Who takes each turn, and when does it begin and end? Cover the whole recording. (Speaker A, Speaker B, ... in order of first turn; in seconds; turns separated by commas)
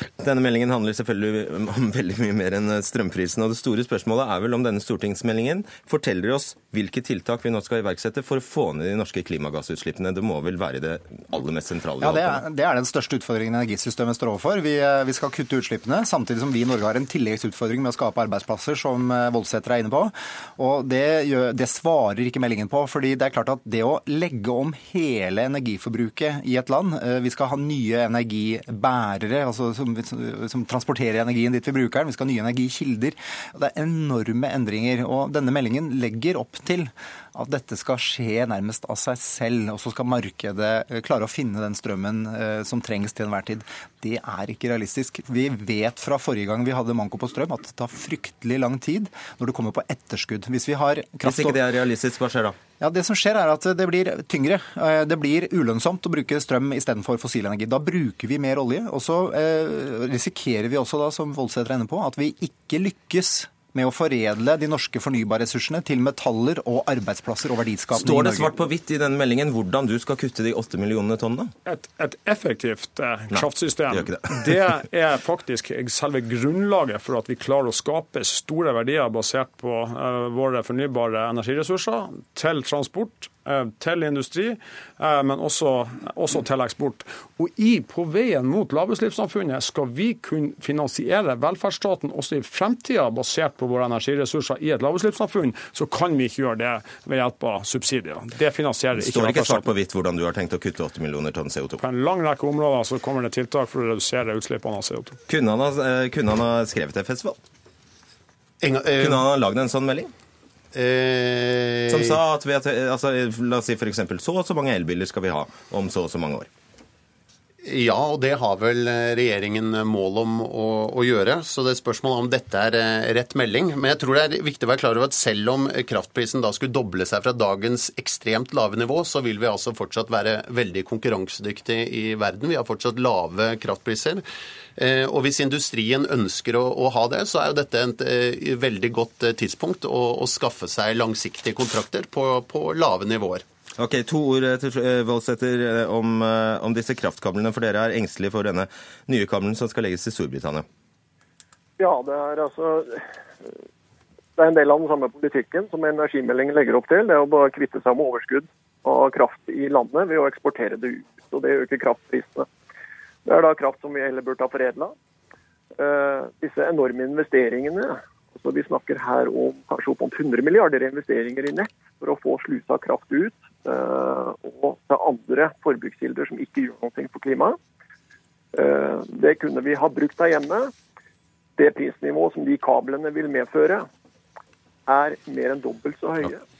Speaker A: 0.2-12.4, Speaker B: 12.0-51.6, Speaker A: 51.2-52.6, Speaker B: 52.8-68.5, Speaker A: 67.9-71.5, Speaker C: 71.7-99.7, Speaker A: 73.3-74.3, Speaker A: 98.9-101.8, Speaker C: 101.8-105.2, Speaker A: 105.3-107.4, Speaker D: 108.6-109.2, Speaker A: 109.0-110.1, Speaker D: 110.7-112.2, Speaker A: 111.9-116.5, Speaker D: 117.6-134.2, Speaker D: 134.8-143.4, Speaker A: 143.8-150.7, Speaker E: 151.8-153.0, Speaker E: 154.4-162.5, Speaker E: 163.2-164.9, Speaker E: 165.8-177.6, Speaker E: 178.5-180.7, Speaker E: 181.6-183.8, Speaker E: 184.9-186.4